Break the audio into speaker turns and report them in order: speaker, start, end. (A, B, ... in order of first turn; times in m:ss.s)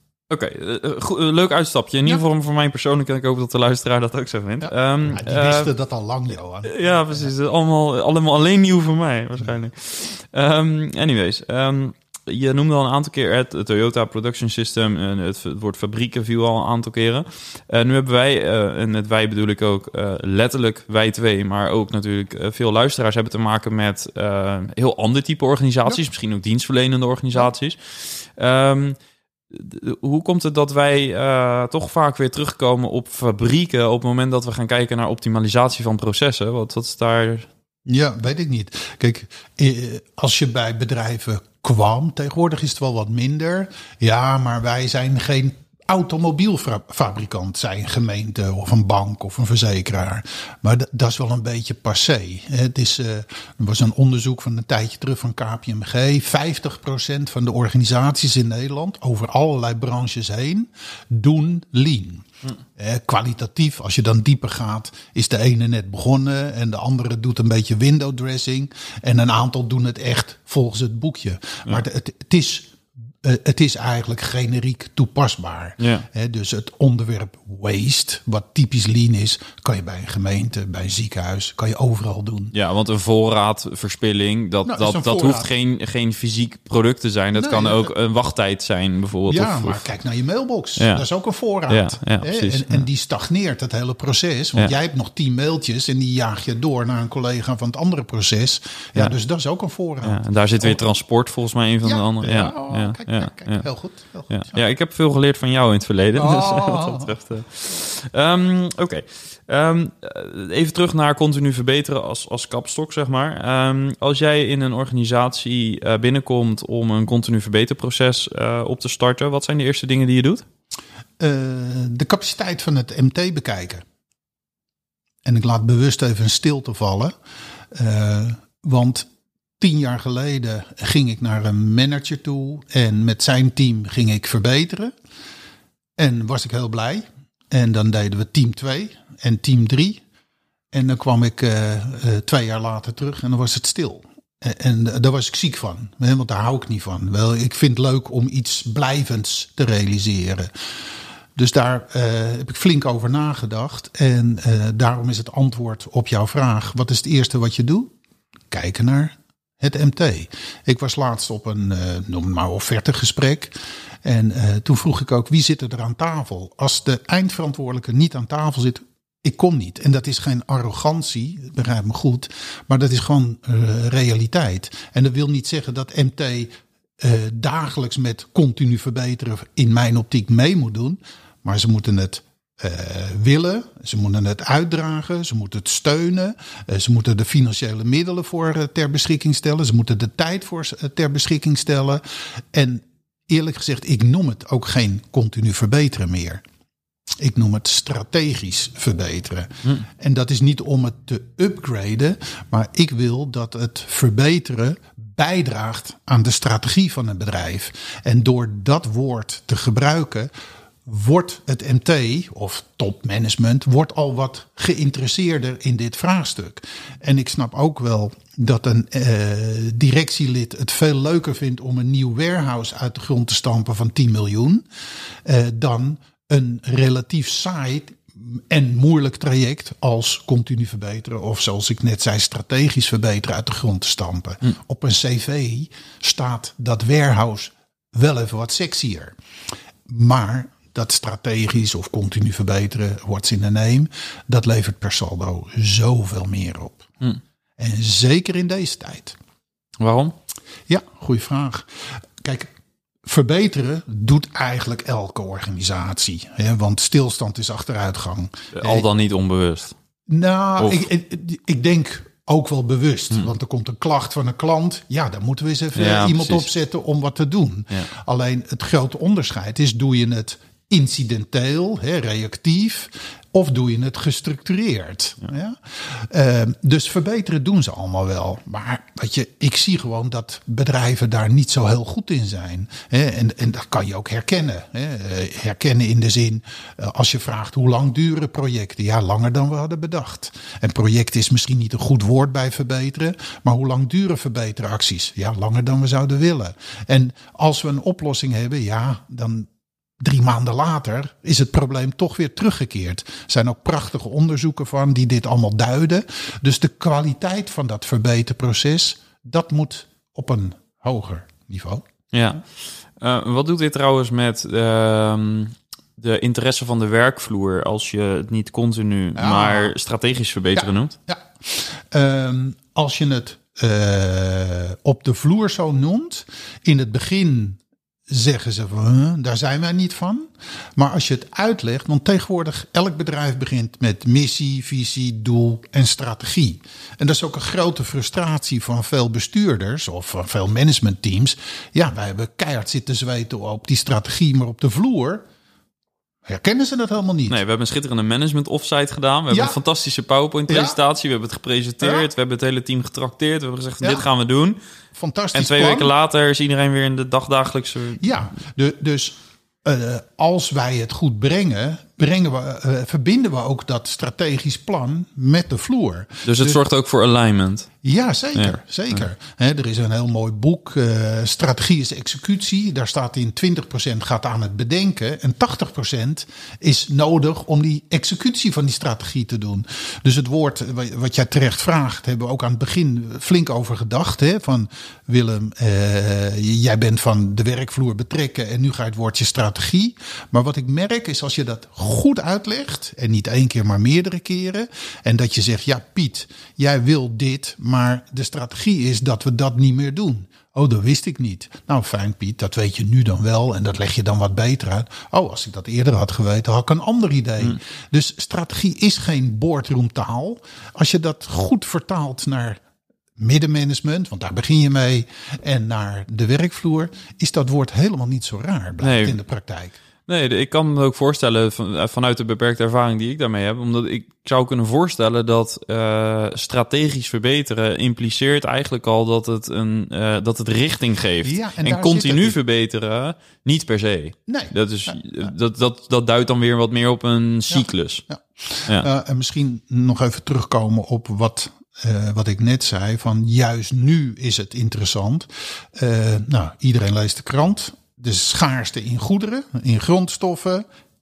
0:00.3-0:05.7 A
0:04.6-0:07.3 B
0:06.6-0:29.0 A
0:29.5-0:37.5 A
0:37.8-1:22.5 B
1:15.8-1:16.0 A
1:22.5-1:29.9 A
1:24.6-1:25.5 B
1:27.4-1:27.9 B
1:29.3-1:40.8 B
1:30.8-1:31.0 A
1:31.7-1:32.9 A
1:40.0-1:43.7 A
1:41.8-1:44.6 B
1:44.3-2:00.4 A
1:46.1-1:47.2 B
2:01.2-2:03.8 B
2:05.2-2:07.1 B
2:07.7-2:09.1 B
2:09.6-2:14.9 B
2:16.0-2:20.0 B
2:20.7-2:30.5 B
2:31.4-2:37.9 B
2:38.5-3:16.4 B
3:17.2-3:30.3 B
3:30.8-3:44.6 B
3:45.2-3:59.2 B
3:59.9-4:06.9 B
4:07.6-4:09.2 B
4:09.8-4:10.1 A
4:10.7-4:12.5 B
4:13.0-4:18.9 B
4:18.5-4:19.7 A
4:20.1-4:59.5 B
4:20.6-4:20.9 A
4:25.7-4:26.5 A
5:00.0-5:11.8 B
5:12.1-5:12.4 A
5:13.0-5:20.9 A
5:19.2-5:19.7 B
5:20.5-5:45.2 B
5:46.2-5:47.4 B
5:47.3-5:54.6 A
5:49.3-5:49.6 B
5:50.5-5:50.8 B
5:51.8-5:52.1 B
5:54.9-5:55.9 B
5:55.3-5:58.1 A
5:58.0-6:06.6 B
6:06.2-6:07.7 A
6:07.8-6:52.6 B
6:53.2-6:59.8 B
6:58.8-6:59.2 A
7:00.1-7:18.0 A
7:11.2-7:12.4 B
7:14.3-7:15.3 B
7:17.5-7:30.6 B